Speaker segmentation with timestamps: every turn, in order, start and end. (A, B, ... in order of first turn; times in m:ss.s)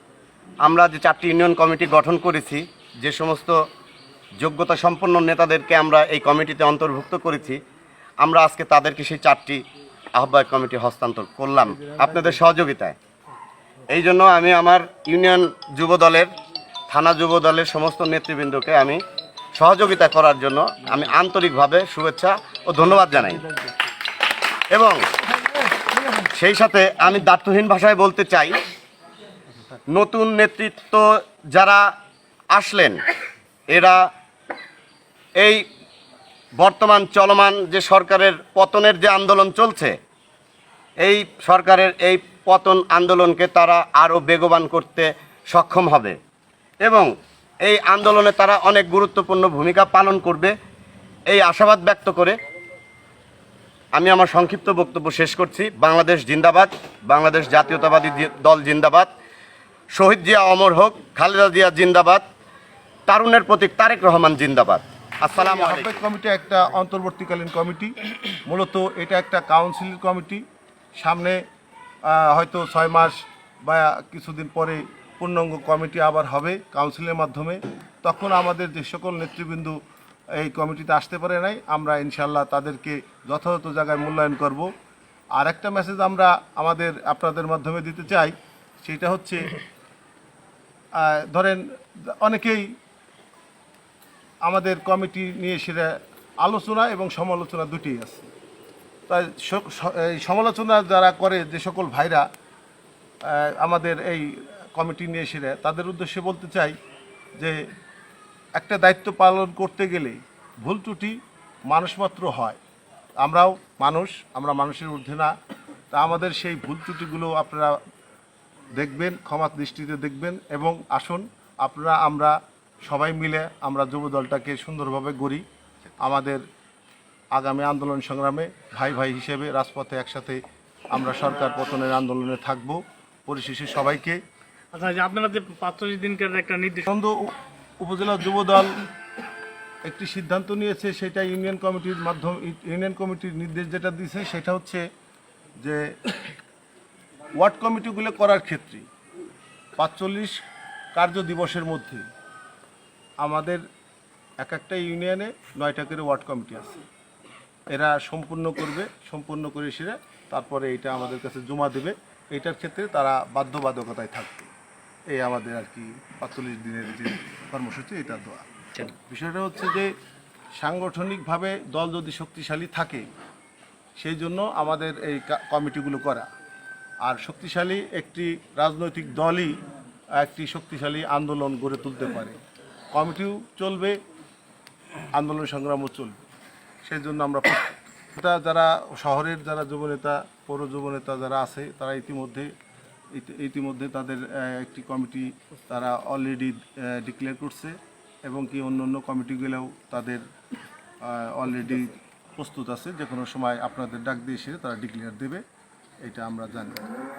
0:00.6-0:03.6 A
0:04.4-0:07.6 A
0:08.2-0:09.6 A
0:10.2-0:13.0 A
0:11.6-0:12.5 B
0:13.9-0:16.3 A
0:16.9-0:19.0 A
0:19.6-0:23.4 A
0:23.1-0:23.9 B
0:24.7-0:25.0 A
0:26.3-0:28.5 A
0:29.9-0:31.8 A
0:32.5-0:33.0 A
0:33.7-0:34.0 A
0:36.6-0:40.0 A
0:41.0-0:46.2 A
0:47.6-0:50.5 A
0:51.3-0:52.4 A
0:54.0-0:59.1 A
0:59.9-1:02.2 A
1:03.1-1:06.0 A
1:05.3-1:07.9 B
1:08.5-1:10.4 B
1:11.0-1:11.4 B
1:12.1-1:19.8 B
1:20.4-1:24.7 B
1:25.4-1:29.5 B
1:31.0-1:31.6 B
1:32.2-1:32.7 B
1:34.4-1:38.3 B
1:39.1-1:42.2 B
1:43.3-1:46.8 B
1:48.6-1:51.2 B
1:51.7-1:52.6 B
1:53.2-1:55.3 B
1:55.9-1:57.8 B
1:58.8-2:05.4 B
2:06.0-2:06.4 B
2:07.3-2:10.4 B
2:10.9-2:14.2 B
2:14.7-2:16.8 C
2:16.8-2:18.8 B
2:19.9-2:24.8 B
2:27.4-2:28.8 B
2:29.8-2:30.4 B
2:31.0-2:32.0 B
2:33.2-2:33.6 B
2:34.4-2:36.8 B
2:37.7-2:44.5 B
2:45.1-2:48.4 B
2:49.0-2:49.9 B
2:50.6-2:53.1 B
2:54.0-2:56.3 B
2:57.0-2:59.6 B
3:00.2-3:02.4 B
3:02.9-3:04.0 B
3:05.2-3:06.2 B
3:06.8-3:12.5 B
3:13.2-3:17.8 B
3:18.3-3:20.2 B
3:21.1-3:25.4 B
3:26.0-3:26.9 B